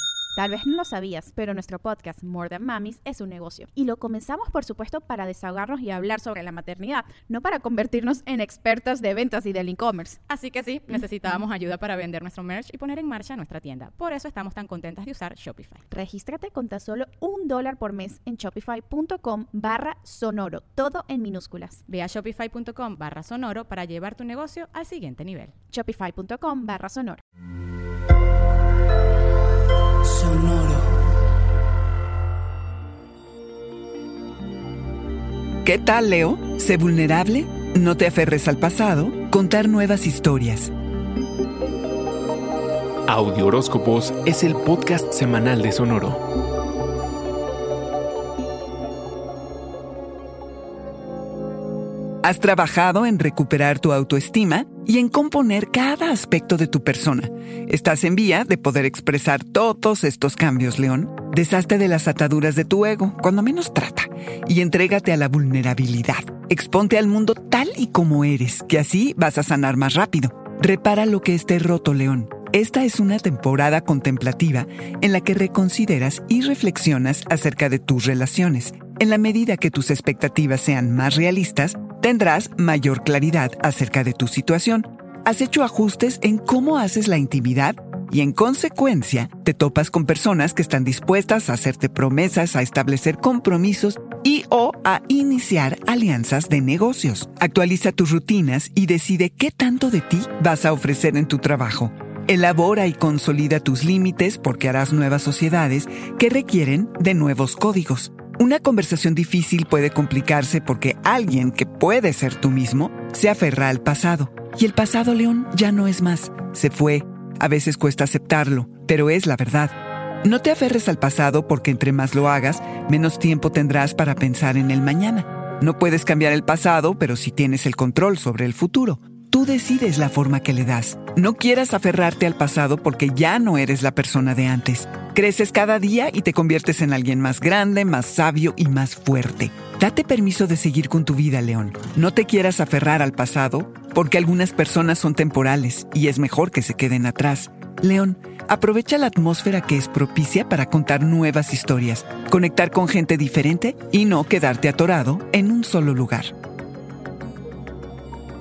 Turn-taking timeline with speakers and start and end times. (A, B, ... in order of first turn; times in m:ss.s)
0:00.4-0:10.2 A
0:10.3-0:15.8 B
0:15.9-0:21.8 A
0:21.9-0:25.5 B
0:25.7-0:27.2 A
0:35.6-0:40.7 C
0:43.1-0:46.2 D
0:52.2-2:36.3 C